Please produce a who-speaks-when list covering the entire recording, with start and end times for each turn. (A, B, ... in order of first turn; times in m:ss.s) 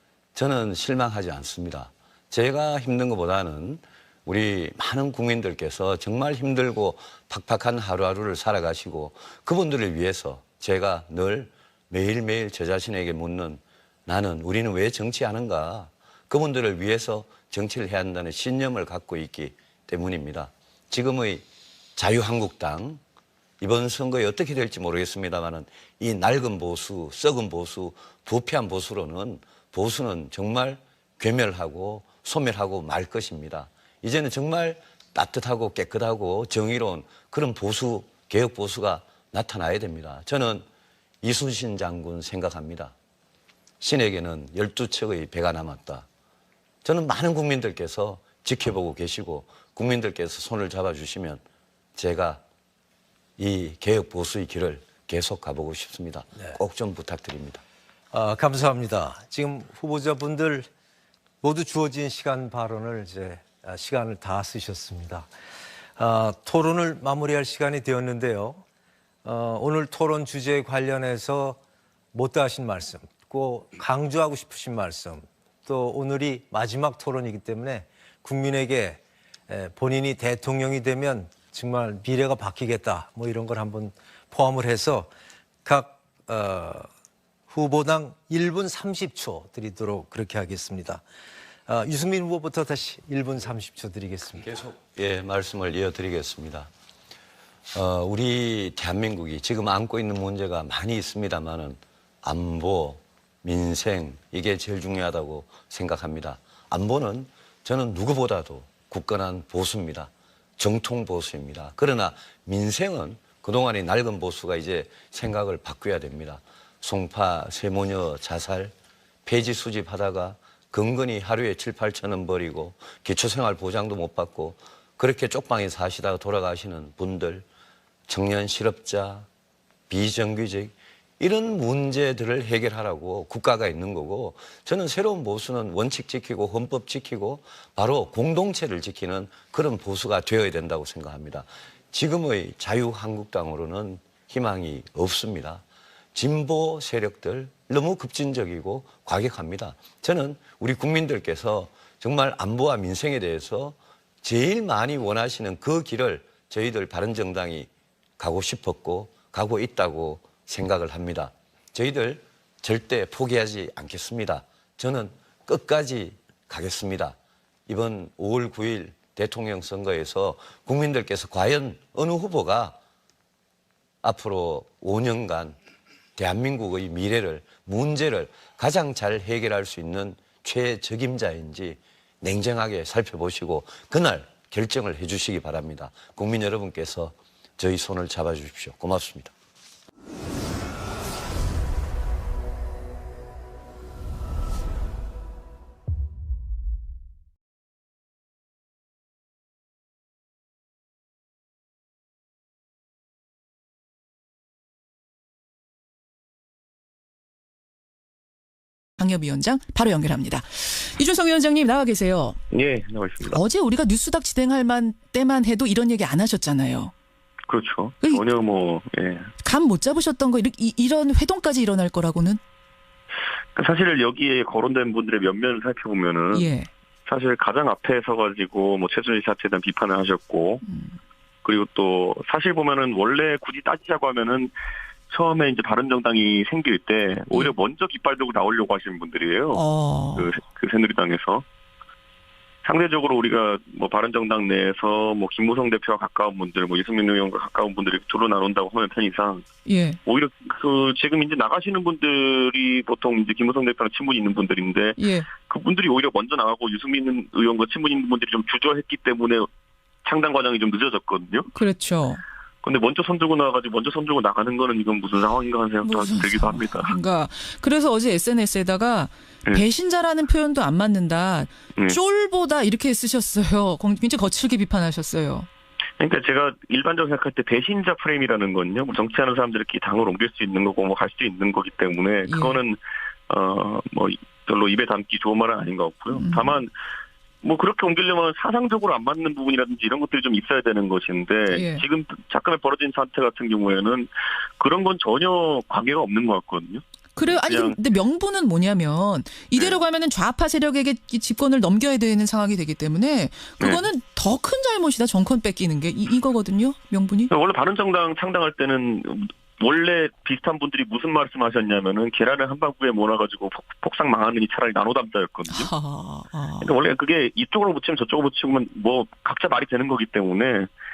0:00.4-0:21.4 A
0:22.0-0:23.0 A
0:23.6-0:40.6 A
0:41.2-0:42.9 A
0:43.8-0:46.0 A
0:46.8-0:51.4 A
0:52.0-0:52.4 A
0:53.4-0:57.6 A
0:58.1-1:00.7 B
1:01.4-1:05.3 B
1:06.0-1:08.6 B
1:09.2-1:11.6 B
1:12.1-1:25.1 B
1:25.6-1:26.9 B
1:27.5-1:31.0 B
1:31.7-1:34.5 B
1:34.4-1:36.7 A
1:37.7-1:58.7 A
1:59.3-2:07.5 A
2:08.1-2:09.3 A
2:09.9-2:25.6 A
2:26.2-2:47.2 A
2:47.7-2:52.8 A
2:54.0-2:55.6 A
2:56.2-3:09.3 A
3:29.0-3:32.4 C
3:32.5-3:33.4 D
3:33.3-3:36.9 C
3:37.5-3:39.3 D
3:38.0-3:38.3 C
3:39.4-3:42.4 C
3:43.6-3:46.5 D
3:46.3-3:46.7 C
3:47.1-3:50.6 D
3:50.6-3:51.0 C
3:51.4-3:54.5 D
3:55.1-3:59.6 D
3:59.5-4:00.3 C
4:00.2-4:01.4 D
4:02.6-4:09.5 D
4:09.6-4:10.0 C
4:10.0-4:19.5 D
4:15.0-4:15.3 C
4:20.0-4:21.5 D
4:21.5-4:22.2 C
4:22.6-4:26.9 D
4:25.8-4:35.5 C
4:36.0-4:46.7 D
4:42.2-4:42.6 C
4:46.1-4:46.6 C
4:47.4-4:57.8 D
4:51.5-4:51.8 C
4:57.2-5:07.3 C
4:59.6-4:59.8 D
5:03.6-5:03.8 D
5:07.3-5:15.7 D
5:15.5-5:16.7 C
5:16.6-5:20.7 D